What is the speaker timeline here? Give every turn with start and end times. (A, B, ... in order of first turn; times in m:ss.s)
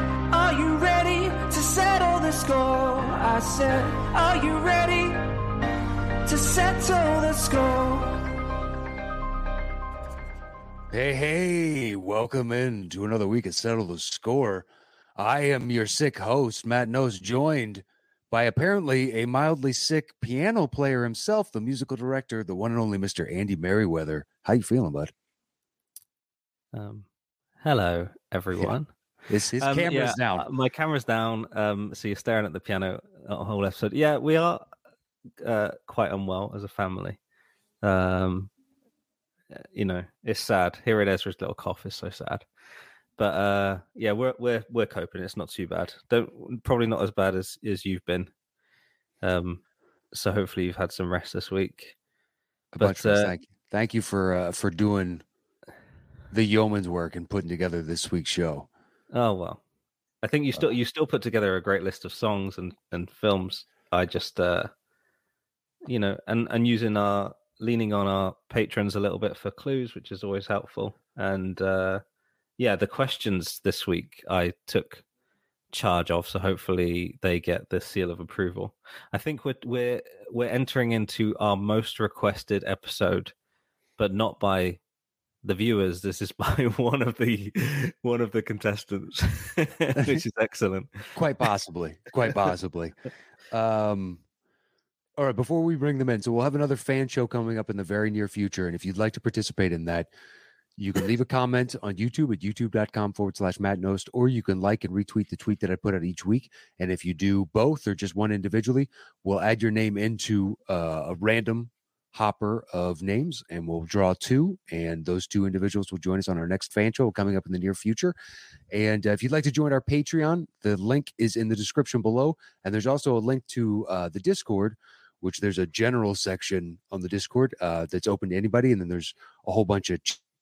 0:00.3-0:05.3 A
0:06.2-0:08.3 A
0:10.9-0:25.1 B
0:26.7-0:27.1 C
0:27.6-0:28.9 C
0:28.5-0:30.5 B
0:29.6-0:34.7 C
0:35.4-0:37.2 C
0:37.8-0:38.5 C
0:39.5-0:42.5 C
0:43.2-0:48.3 C
0:49.2-0:52.0 C
0:52.7-0:55.2 B
0:52.8-0:53.4 C
0:56.3-0:58.7 B
0:59.1-0:59.6 C
1:00.2-1:04.7 C
1:05.8-1:12.0 C
1:12.6-1:15.0 C
1:15.7-1:23.3 C
1:24.0-1:24.8 C
1:25.4-1:31.1 C
1:30.0-1:30.2 B
1:31.2-1:33.0 B
1:33.5-1:34.2 B
1:35.2-1:40.1 B
1:40.8-1:58.2 B
1:58.7-2:10.2 B